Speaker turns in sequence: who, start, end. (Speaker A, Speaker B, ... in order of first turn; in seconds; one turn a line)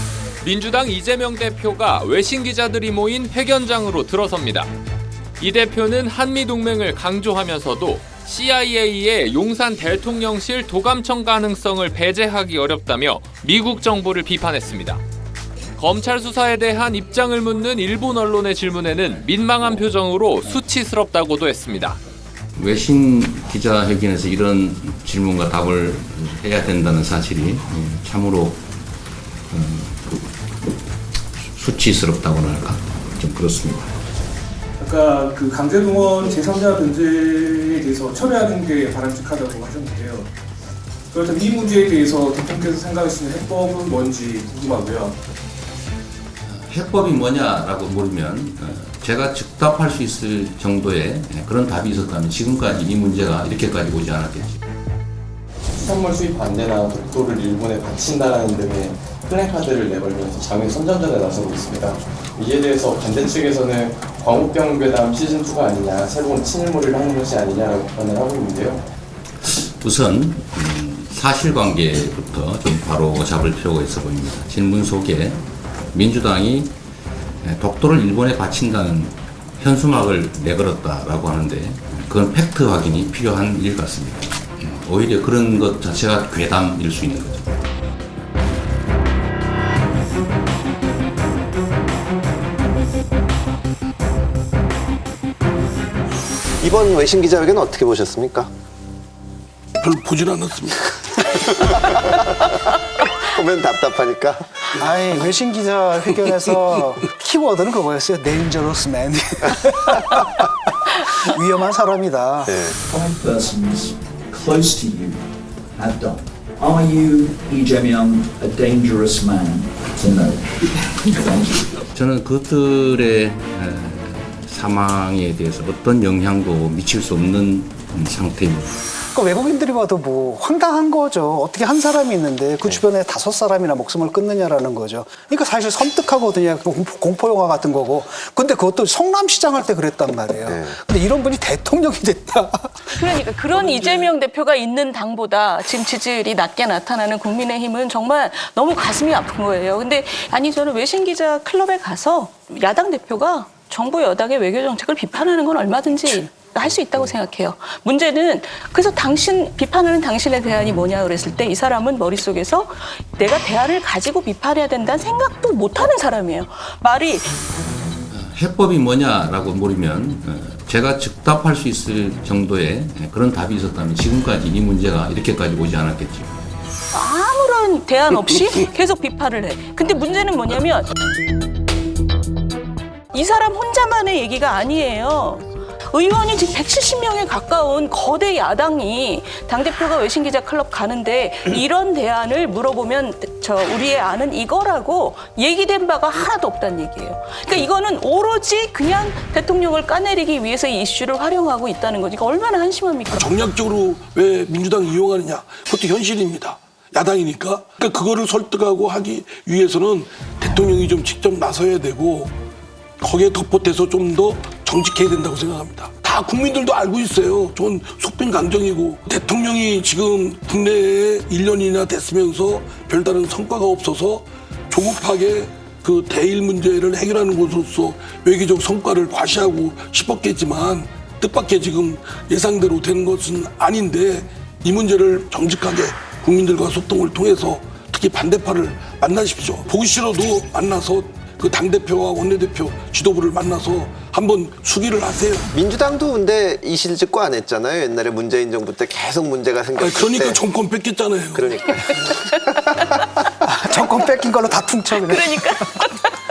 Speaker A: 0.4-4.7
Speaker A: 5.4-15.0
Speaker A: 15.8-22.0
Speaker B: 22.6-28.6
Speaker B: 29.5-30.2
Speaker B: 31.5-33.9
Speaker C: 34.8-40.3
Speaker C: 41.1-45.2
Speaker B: 46.4-54.6
Speaker D: 55.8-68.8
Speaker B: 69.4-75.4
Speaker B: 75.9-76.7
Speaker B: 77.4-87.5
Speaker E: 96.6-98.5
Speaker F: 99.8-101.1
Speaker E: 101.8-104.8
Speaker G: 104.8-110.5
Speaker G: 111.0-112.6
Speaker E: 112.5-112.8
Speaker H: 113.1-115.2
Speaker H: 115.8-120.4
Speaker B: 121.9-128.7
Speaker G: 129.1-142.9
Speaker E: 140.5-140.8
Speaker I: 142.9-167.4
Speaker B: 168.1-176.3
Speaker I: 176.9-180.9
Speaker I: 183.1-203.5
Speaker F: 203.1-212.3
Speaker F: 213.0-245.5
Speaker E: 245.5-250.4
Speaker F: 249.8-251.5
Speaker E: 251.3-252.9
Speaker G: 253.4-255.8
Speaker I: 254.9-256.2